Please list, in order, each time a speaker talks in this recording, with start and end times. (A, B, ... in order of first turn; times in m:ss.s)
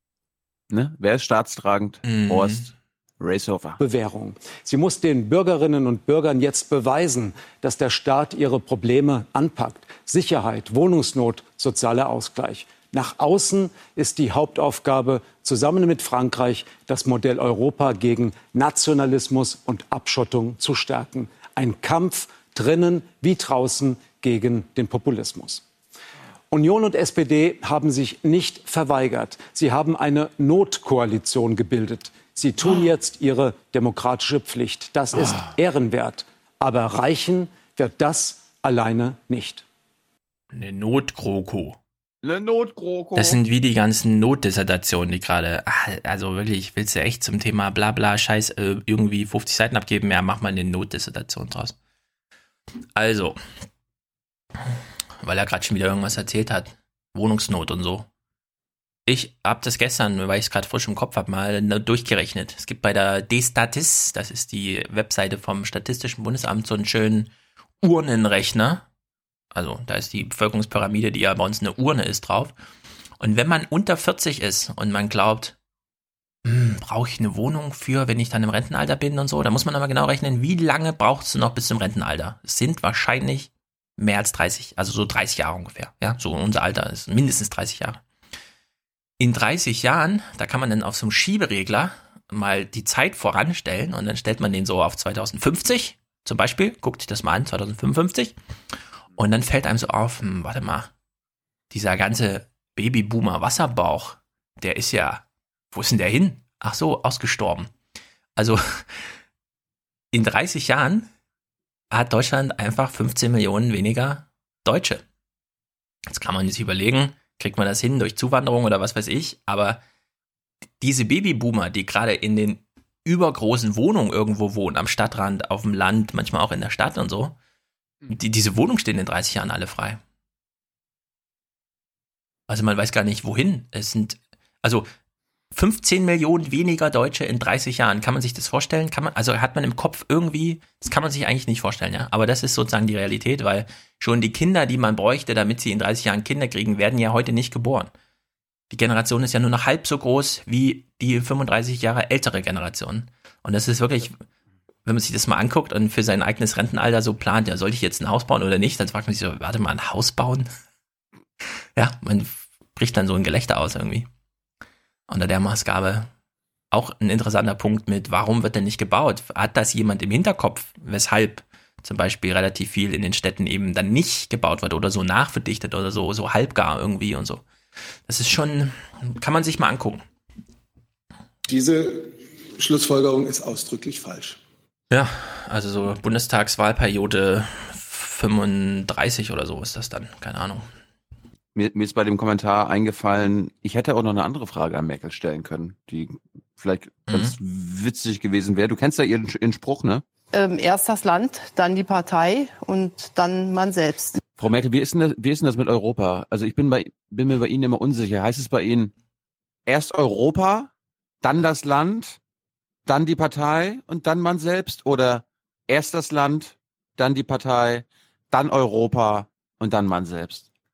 0:00.7-0:03.8 A
0:02.0-0:02.6 B
0:03.8-0:25.6 C
0:26.5-0:39.6 C
0:40.5-0:41.8 B
0:42.2-0:43.4 A
0:43.2-0:51.8 B
0:53.0-0:53.4 B
0:55.2-0:58.1 B
0:59.1-1:07.3 B
1:07.8-1:08.8 B
1:09.5-1:12.5 B
1:13.2-1:15.5 B
1:16.4-1:28.0 B
1:29.2-1:38.4 B
1:39.2-1:40.9 B
1:41.7-1:47.7 B
1:48.4-1:49.1 B
1:50.1-1:51.1 B
1:51.9-1:55.0 B
1:56.1-1:59.8 B
2:00.8-2:07.4 B
2:08.1-2:10.0 B
2:12.5-2:14.9 B
2:15.5-2:27.9 B
2:28.7-2:34.2 B
2:34.8-2:40.5 B
2:41.8-2:44.1 B
2:45.1-2:46.1 B
2:46.7-2:57.4 B
2:58.1-3:00.0 B
3:01.5-3:04.4 D
3:04.9-3:10.7 B
3:11.5-3:20.0 A
3:20.3-3:24.2 E
3:24.4-3:28.9 A
3:29.7-3:30.7 A
3:31.2-3:32.2 A
3:32.8-3:40.4 A